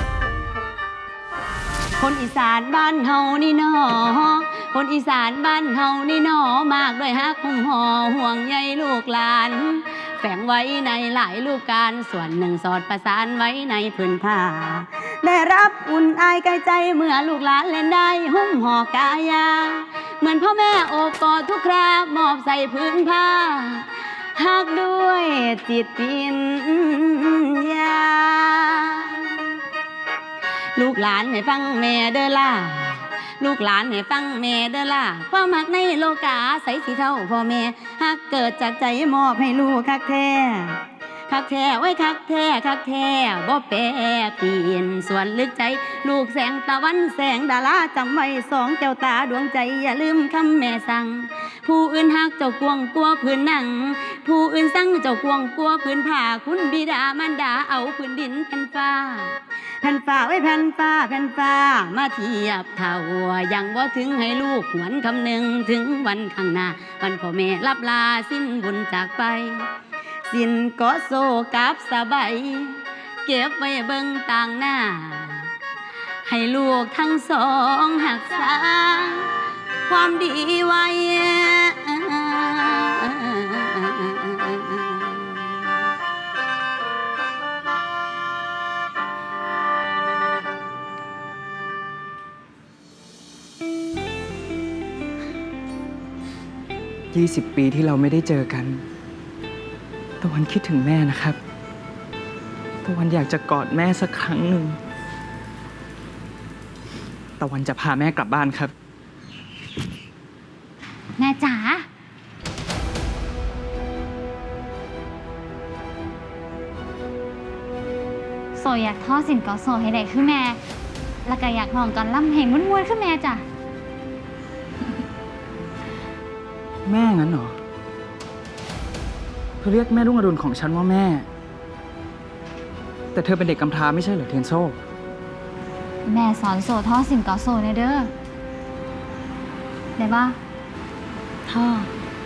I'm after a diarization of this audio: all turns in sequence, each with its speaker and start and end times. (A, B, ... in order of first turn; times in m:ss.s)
0:02.0-0:29.4 A
0:30.8-1:09.7 A
1:10.3-1:15.5 A
1:16.2-1:19.3 A
1:19.9-1:25.6 A
1:37.1-1:38.8 B
1:40.2-1:41.4 B
1:42.8-1:44.8 B
1:47.4-1:48.7 B
1:51.2-1:51.8 C
1:58.5-2:00.6 C
2:01.2-2:03.4 C
2:06.8-2:07.6 B
2:09.6-2:11.3 B
2:13.1-2:14.8 B
2:16.0-2:18.1 C
2:20.0-2:20.4 C
2:21.5-2:21.9 A